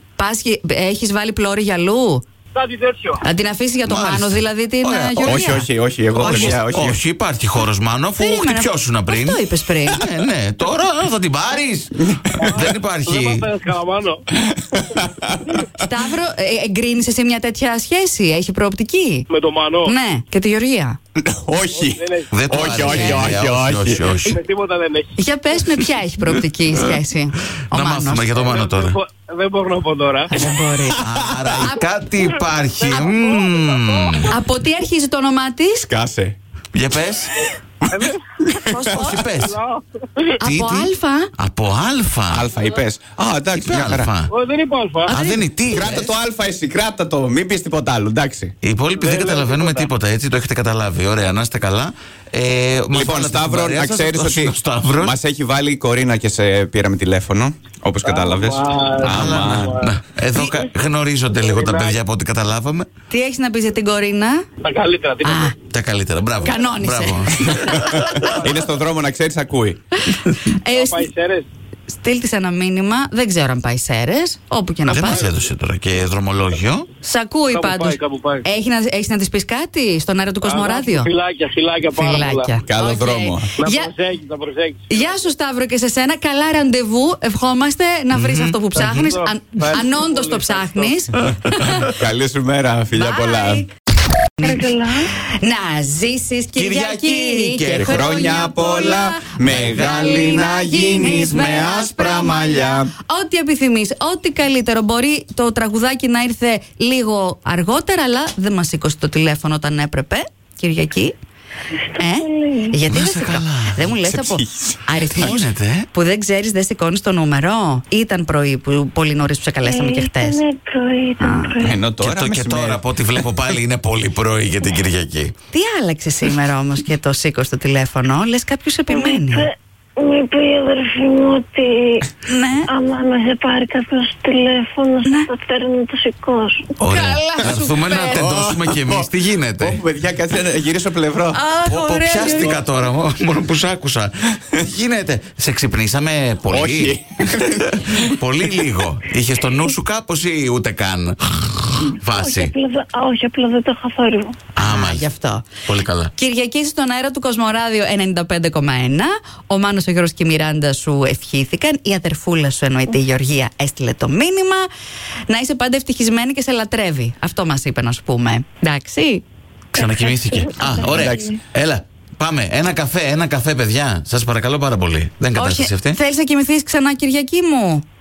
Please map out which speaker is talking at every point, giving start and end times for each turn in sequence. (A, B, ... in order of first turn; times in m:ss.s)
0:00.2-0:02.2 A
0:02.5-0:03.2 B
0:03.2-0:05.7 A
0:03.8-0:05.6 C
0:05.2-0:07.0 D
0:06.2-0:13.5 C
0:06.2-0:06.6 A
0:08.2-0:10.0 A
0:12.0-0:12.6 D
0:12.3-0:14.2 B
0:14.5-0:15.6 D
0:15.7-0:19.2 A
0:19.3-0:19.9 B
0:19.8-0:21.0 A
0:21.2-0:24.0 D
0:21.7-0:25.1 B
0:22.3-0:24.4 C
0:22.7-0:23.3 A
0:25.2-0:28.5 A
0:27.7-0:29.0 C
0:28.3-0:30.3 B
0:30.3-0:31.0 A
0:31.0-0:34.3 C
0:31.1-0:31.4 D
0:31.6-0:31.8 A
0:32.9-0:33.4 A
0:34.3-0:35.9 A
0:35.9-0:36.4 D
0:36.7-0:37.3 C
0:37.9-0:38.9 D
0:37.9-0:38.2 B
0:38.7-0:39.2 A
0:38.7-0:40.3 B
0:38.9-0:39.6 C
0:40.4-0:41.3 A
0:40.4-0:42.5 C
0:42.3-0:44.1 D
0:43.6-0:44.3 C
0:44.3-0:45.1 B
0:45.0-0:46.1 C
0:45.1-0:45.4 A
0:45.7-0:48.5 D
0:48.6-0:55.2 C
0:48.9-0:49.9 B
0:52.9-0:59.8 D
0:58.0-1:00.6 B
0:59.0-1:02.9 C
1:01.4-1:02.0 B
1:03.1-1:04.4 A
1:04.6-1:05.5 B
1:05.2-1:05.5 A
1:05.7-1:08.4 C
1:06.4-1:07.6 A
1:07.7-1:08.7 B
1:08.1-1:09.8 D
1:10.0-1:11.1 A
1:10.7-1:11.5 B
1:11.9-1:15.2 A
1:14.8-1:16.9 C
1:17.0-1:21.1 A
1:17.5-1:18.4 B
1:20.4-1:22.5 B
1:21.9-1:23.9 A
1:22.6-1:23.5 D
1:23.6-1:25.0 B
1:24.9-1:31.9 A
1:28.1-1:28.8 C
1:28.7-1:31.0 B
1:31.8-1:33.6 D
1:32.9-1:33.7 A
1:34.4-1:34.7 A
1:34.4-1:35.1 E
1:35.4-1:51.1 A
1:36.6-1:38.3 C
1:37.8-1:42.9 D
1:51.8-1:52.8 E
1:52.0-2:00.4 A
1:52.9-1:53.9 C
1:53.9-1:55.4 D
1:55.1-1:55.9 C
1:59.6-2:01.8 E
2:01.2-2:01.6 A
2:01.6-2:02.8 D
2:02.0-2:05.3 C
2:05.5-2:09.5 A
2:08.9-2:12.0 E
2:12.2-2:12.7 A
2:12.7-2:16.7 E
2:15.0-2:15.3 A
2:16.8-2:18.3 A
2:16.8-2:19.8 C
2:18.1-2:21.4 D
2:21.3-2:22.6 A
2:21.6-2:32.5 C
2:26.5-2:28.7 D
2:32.1-2:34.4 E
2:34.5-2:35.1 C
2:34.6-2:35.5 A
2:35.6-2:36.1 C
2:36.1-2:44.7 A
2:45.3-2:49.2 A
2:49.7-2:56.0 C
2:50.1-2:51.4 E
2:50.8-2:51.4 D
2:55.3-2:57.8 A